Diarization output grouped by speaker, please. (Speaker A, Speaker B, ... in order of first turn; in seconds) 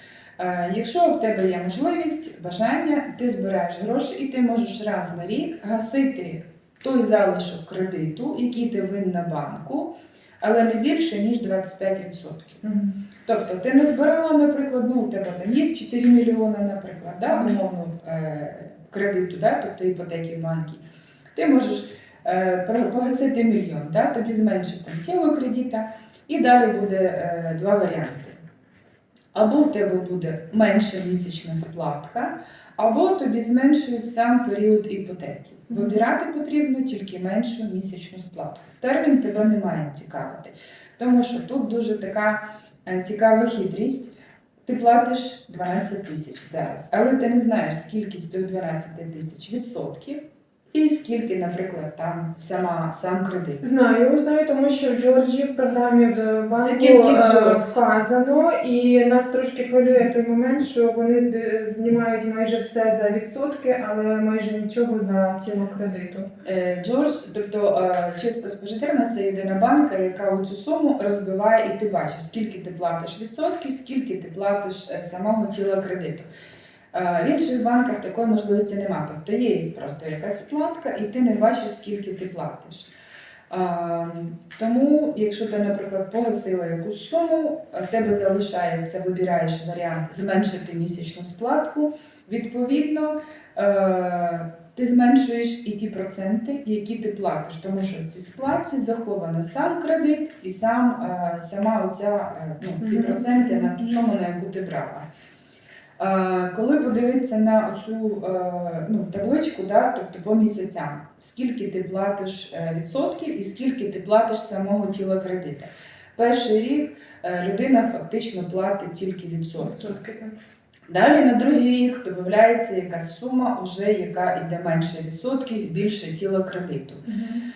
Speaker A: 0.4-12.6, 13.2-28.4, 29.3-44.1, 44.6-50.2, 50.7-53.6, 56.5-57.8, 66.4-76.3, 76.9-82.9, 83.5-105.0, 106.0-120.0, 120.9-127.0
Speaker B: 12.6-13.0, 17.3-17.6, 35.7-36.0, 53.6-66.3, 102.8-103.7, 119.6-120.3